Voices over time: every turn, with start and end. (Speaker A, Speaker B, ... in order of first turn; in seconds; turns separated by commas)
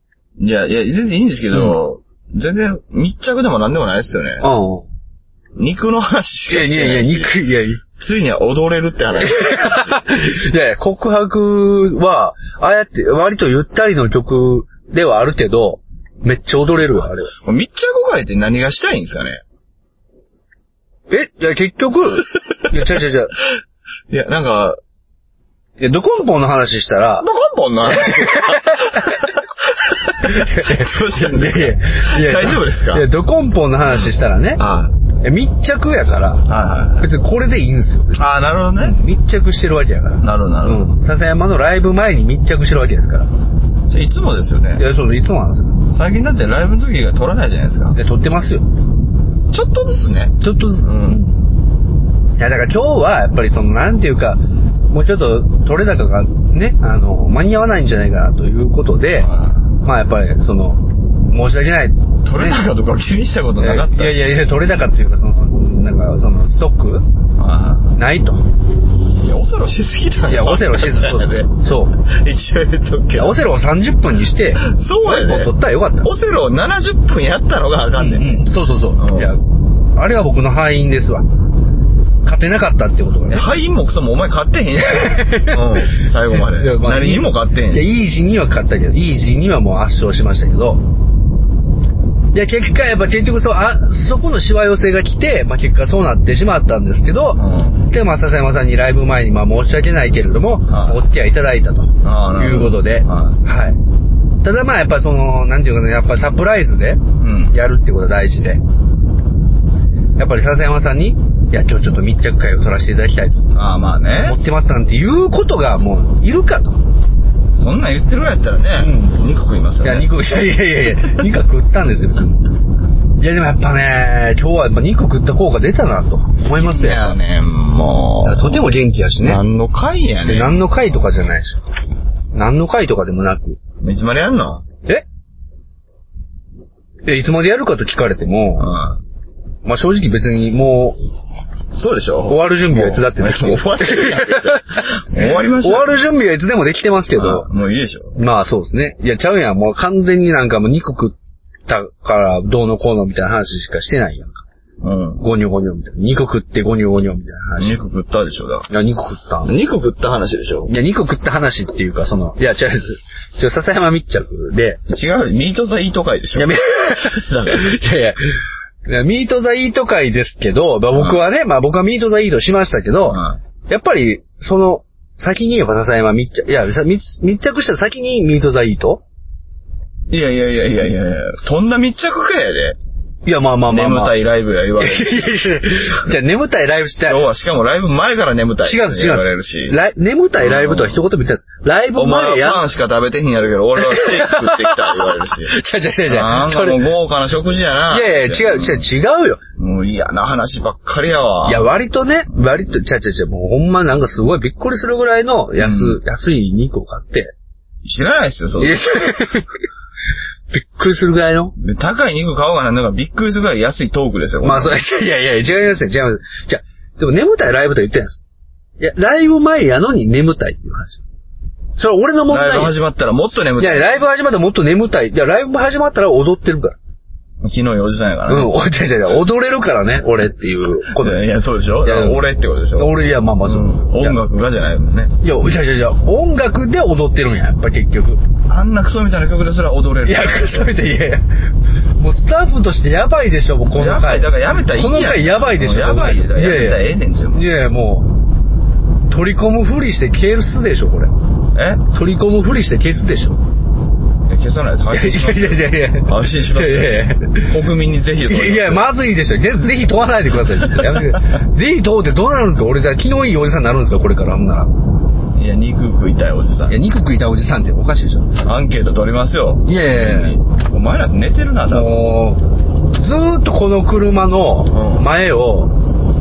Speaker A: 0.4-4.5, Speaker B: 4.4-4.8, Speaker A: 5.6-10.0, Speaker B: 6.5-7.8, Speaker B: 9.2-17.3, Speaker A: 17.4-19.4, Speaker B: 21.1-23.4, Speaker A: 24.1-24.8, Speaker B: 25.8-27.3, Speaker A: 27.2-29.3, Speaker B: 27.9-29.2, Speaker A: 29.8-33.1, Speaker B: 30.2-34.6, Speaker A: 34.6-34.9, Speaker B: 35.2-36.5, Speaker A: 36.5-37.1, Speaker B: 37.0-38.2, Speaker A: 38.1-39.0, Speaker B: 38.8-43.3, Speaker A: 40.2-40.9, Speaker A: 43.9-44.8, Speaker B: 44.8-45.8, Speaker A: 45.9-48.0, Speaker B: 48.0-48.7, Speaker A: 49.5-51.2, Speaker B: 50.4-51.5, Speaker B: 52.4-59.3, Speaker A: 59.3-59.6, Speaker B: 59.8-62.6, Speaker A: 62.2-64.2, Speaker B: 63.6-67.0, Speaker A: 67.4-68.0, Speaker B: 68.0-68.4, Speaker A: 69.1-73.4, Speaker B: 70.3-71.9, Speaker B: 73.2-76.1, Speaker A: 74.6-79.3, Speaker B: 78.0-79.4, Speaker B: 80.0-81.3, Speaker B: 82.2-83.5, Speaker A: 83.3-87.9, Speaker B: 84.8-85.7, Speaker B: 86.3-90.8, Speaker B: 92.3-103.8, Speaker A: 97.4-97.8, Speaker A: 100.7-101.0, Speaker A: 102.0-103.4, Speaker B: 104.4-108.6, Speaker A: 107.2-107.5, Speaker B: 110.2-113.5, Speaker A: 113.5-114.4, Speaker B: 114.1-116.8, Speaker A: 117.6-120.1, Speaker B: 118.8-119.2, Speaker B: 119.8-122.5, Speaker B: 123.2-127.2, Speaker A: 126.5-128.7, Speaker B: 128.2-129.4, Speaker A: 129.2-130.7, Speaker B: 130.2-131.6, Speaker B: 132.3-133.6, Speaker A: 133.8-134.7, Speaker B: 137.1-138.7, Speaker A: 138.6-139.0, Speaker B: 139.7-141.0, Speaker A: 141.7-146.0, Speaker B: 142.3-144.9, Speaker B: 145.6-147.5, Speaker A: 147.2-148.2, Speaker B: 148.2-151.2, Speaker B: 151.7-154.4, Speaker A: 154.8-155.2, Speaker B: 155.2-157.8, Speaker A: 157.6-158.7, Speaker B: 158.7-159.6, Speaker A: 159.5-160.7, Speaker B: 160.7-164.8, Speaker A: 164.9-167.7, Speaker B: 166.3-168.2, Speaker B: 168.9-179.0, Speaker A: 170.9-171.2, Speaker A: 173.1-173.4, Speaker A: 180.1-182.8, Speaker B: 183.3-184.2, Speaker A: 183.7-185.6, Speaker B: 184.8-187.2, Speaker A: 187.0-189.8, Speaker B: 188.7-192.7, Speaker A: 190.4-191.0, Speaker A: 191.9-198.9, Speaker B: 193.8-196.9, Speaker B: 197.9-199.4, Speaker A: 199.6-201.7, Speaker B: 201.5-207.3, Speaker A: 205.6-206.0, Speaker A: 207.8-209.3, Speaker B: 208.6-209.5, Speaker B: 210.5-211.6, Speaker A: 211.6-214.8, Speaker B: 214.4-218.2, Speaker B: 218.8-221.0, Speaker B: 221.8-222.8, Speaker A: 222.3-224.0, Speaker B: 223.6-226.8, Speaker A: 227.4-228.5, Speaker B: 228.3-231.3, Speaker A: 230.9-235.2, Speaker B: 231.8-232.2, Speaker B: 232.8-234.2, Speaker B: 235.2-238.2, Speaker A: 238.5-240.8, Speaker B: 240.1-241.2, Speaker B: 242.0-248.1, Speaker A: 243.7-247.4, Speaker B: 249.1-251.1, Speaker A: 251.6-251.8, Speaker B: 251.9-253.4, Speaker A: 254.3-258.9, Speaker B: 254.9-257.6, Speaker B: 258.3-264.7, Speaker A: 260.8-261.1, Speaker A: 265.4-266.8, Speaker B: 266.7-268.4, Speaker A: 268.4-272.0, Speaker B: 269.7-270.4, Speaker B: 271.7-275.8, Speaker A: 274.7-275.1